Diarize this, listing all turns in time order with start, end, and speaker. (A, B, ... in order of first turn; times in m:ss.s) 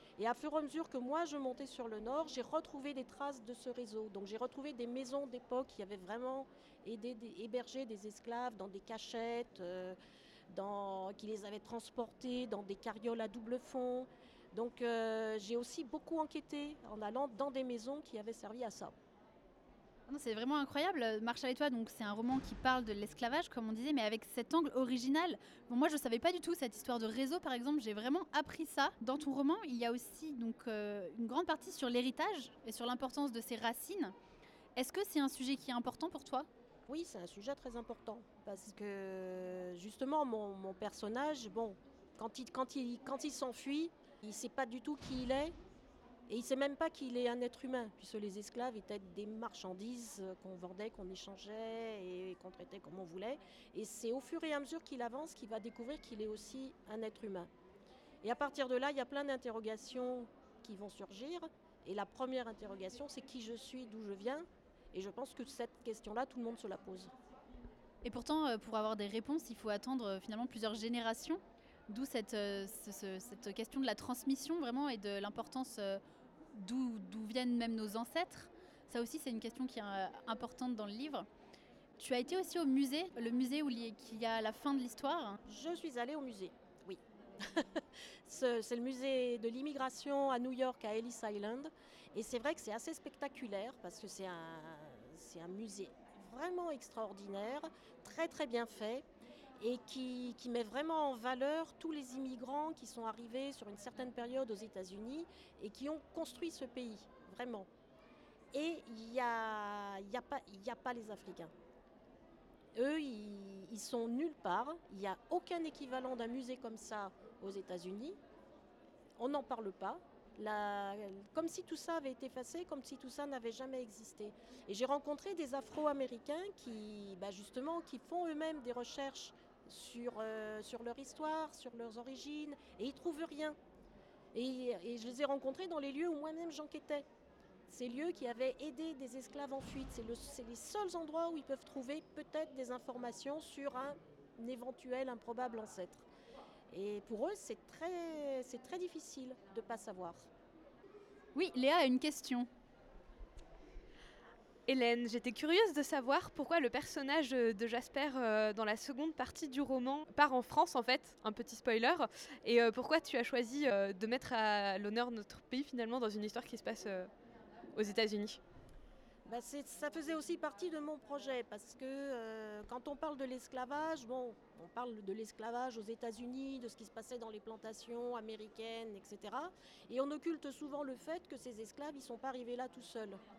0:00.2-0:10.0 A
0:10.5-0:19.0 A
0:20.1-0:34.2 B
0:34.8-0:36.5 B
0:36.9-0:45.5 A
0:46.3-0:57.5 A
0:58.2-1:07.1 A
1:08.0-1:16.0 B
1:16.5-1:21.3 B
1:22.0-1:25.4 B
1:25.5-1:39.0 A
1:39.6-1:47.7 A
1:48.5-1:51.5 A
1:52.8-1:58.2 A
1:59.2-2:13.6 A
2:14.3-2:17.1 A
2:17.7-2:26.0 A
2:26.7-2:30.3 A
2:31.4-2:32.5 B
2:34.7-2:47.1 C
2:47.7-2:48.4 C
2:49.3-3:03.2 A